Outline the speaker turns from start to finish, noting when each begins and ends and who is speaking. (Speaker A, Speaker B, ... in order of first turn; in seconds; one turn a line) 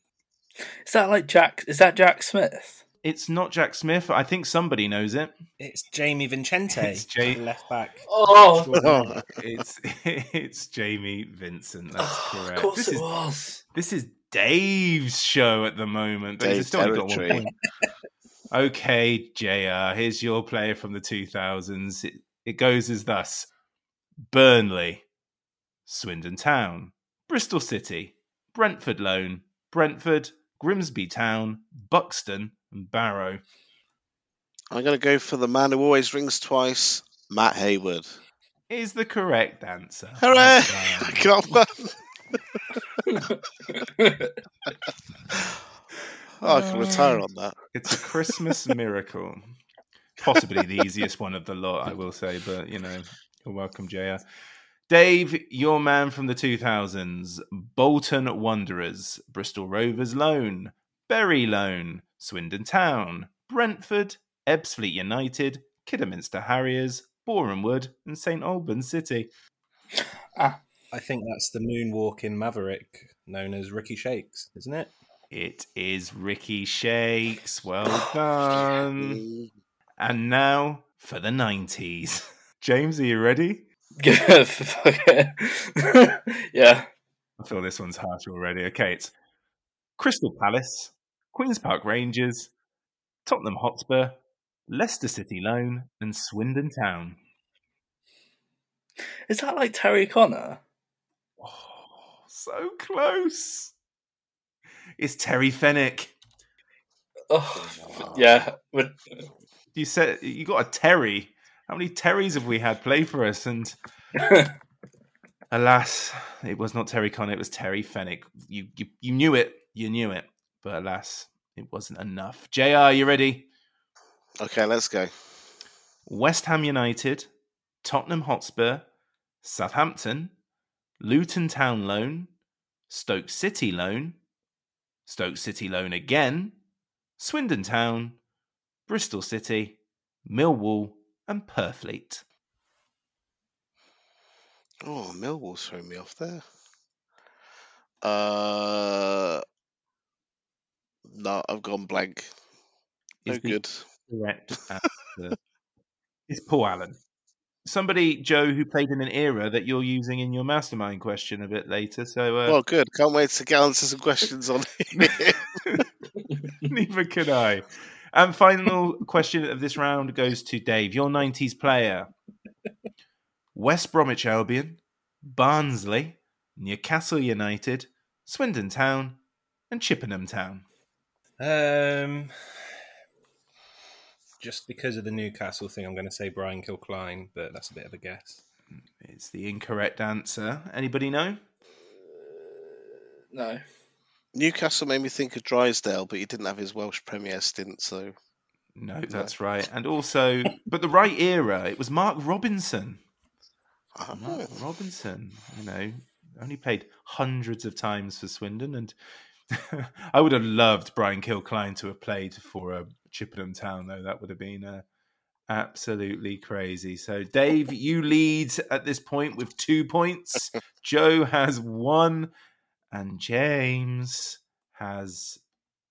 Speaker A: 0.8-2.8
Speaker B: 3.0-5.3
Speaker C: 5.6-8.1
Speaker B: 6.7-7.4
Speaker A: 8.1-8.8
Speaker B: 8.7-13.0
Speaker D: 8.8-9.2
Speaker A: 12.0-13.6
Speaker B: 13.7-17.5
Speaker D: 16.4-17.4
Speaker B: 18.5-23.5
Speaker B: 24.3-25.0
Speaker B: 25.9-33.4
Speaker D: 34.7-38.1
Speaker B: 38.7-41.3
Speaker D: 40.2-42.0
Speaker A: 43.1-44.3
Speaker D: 46.4-47.5
Speaker A: 46.5-47.2
Speaker B: 47.7-49.5
Speaker B: 50.2-54.2
Speaker B: 54.9-69.3
Speaker C: 70.9-74.9
Speaker B: 75.3-79.2
Speaker D: 79.0-79.5
Speaker B: 80.0-83.6
Speaker A: 84.0-86.8
Speaker B: 87.4-89.1
Speaker B: 90.0-92.5
Speaker B: 93.2-94.2
Speaker B: 94.7-97.2
Speaker A: 99.3-100.6
Speaker B: 101.4-103.7
Speaker B: 105.0-106.1
Speaker A: 107.3-109.2
Speaker B: 109.7-113.8
Speaker A: 114.2-114.5
Speaker B: 115.5-123.5
Speaker D: 124.4-125.1
Speaker B: 126.1-127.3
Speaker B: 127.8-128.8
Speaker B: 129.4-130.3
Speaker B: 131.0-132.3
Speaker B: 132.9-134.2
Speaker B: 135.1-136.5
Speaker B: 137.2-138.2
Speaker B: 138.9-142.2
Speaker D: 144.8-146.4
Speaker D: 148.0-149.4
Speaker D: 151.1-152.3
Speaker B: 153.2-155.3
Speaker D: 153.3-153.8
Speaker B: 156.3-157.0
Speaker B: 157.7-162.6
Speaker D: 162.5-165.8
Speaker B: 166.7-172.1
Speaker B: 173.5-179.2
Speaker B: 179.7-180.6
Speaker C: 181.4-182.3
Speaker C: 184.4-188.4
Speaker B: 189.0-191.4
Speaker A: 193.3-193.6
Speaker D: 194.3-198.1
Speaker B: 198.8-203.0
Speaker D: 204.0-204.5
Speaker B: 204.1-208.9
Speaker B: 209.5-214.8
Speaker B: 215.5-222.3
Speaker B: 222.9-225.4